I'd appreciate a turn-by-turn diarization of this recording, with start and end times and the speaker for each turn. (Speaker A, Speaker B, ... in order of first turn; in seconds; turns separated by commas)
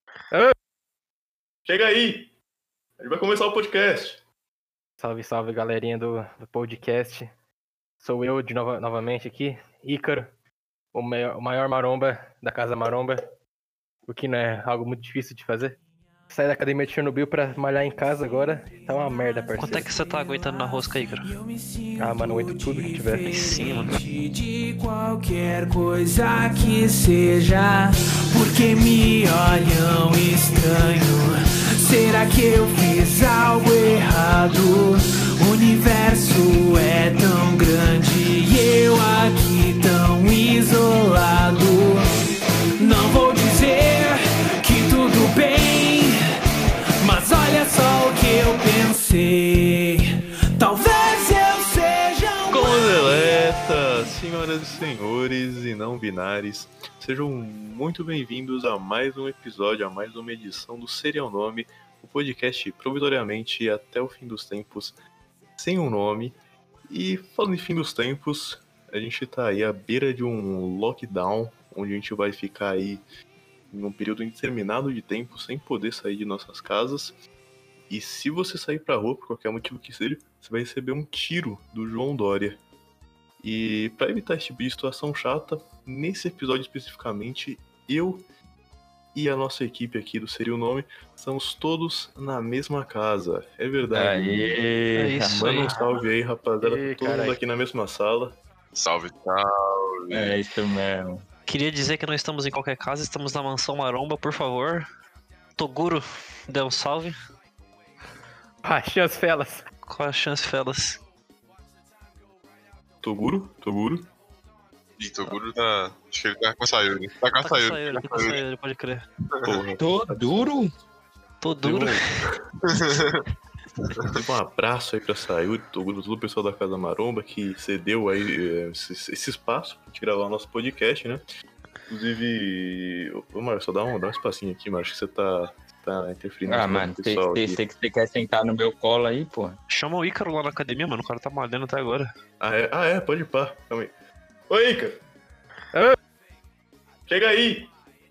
Speaker A: 1.7-2.3, Speaker A: 3.0-4.2, Speaker B: 5.0-7.3, Speaker B: 8.0-10.3, Speaker B: 10.9-13.2, Speaker B: 14.1-19.9, Speaker C: 19.6-21.3, Speaker D: 19.6-46.2, Speaker B: 22.0-23.3, Speaker C: 23.2-24.0, Speaker D: 47.0-53.0, Speaker A: 52.5-65.0, Speaker A: 65.6-73.0, Speaker A: 73.7-77.2, Speaker A: 77.9-82.6, Speaker A: 83.4-88.3, Speaker A: 89.1-94.5, Speaker E: 93.9-95.4, Speaker C: 95.0-96.0, Speaker A: 95.3-98.4, Speaker B: 96.6-97.4, Speaker F: 98.7-100.4, Speaker E: 100.1-101.2, Speaker C: 101.5-104.8, Speaker C: 105.6-107.2, Speaker B: 108.6-109.6, Speaker C: 109.9-111.0, Speaker A: 113.0-114.1, Speaker F: 115.0-118.4, Speaker C: 117.4-119.1, Speaker F: 119.4-119.6, Speaker A: 119.5-120.5, Speaker E: 119.8-120.7, Speaker C: 121.4-122.3, Speaker A: 121.6-122.3, Speaker F: 122.7-123.2, Speaker A: 124.1-131.2, Speaker A: 131.9-137.6, Speaker E: 136.5-139.6, Speaker C: 139.7-142.1, Speaker A: 142.4-143.9, Speaker A: 144.5-145.0, Speaker A: 147.1-147.7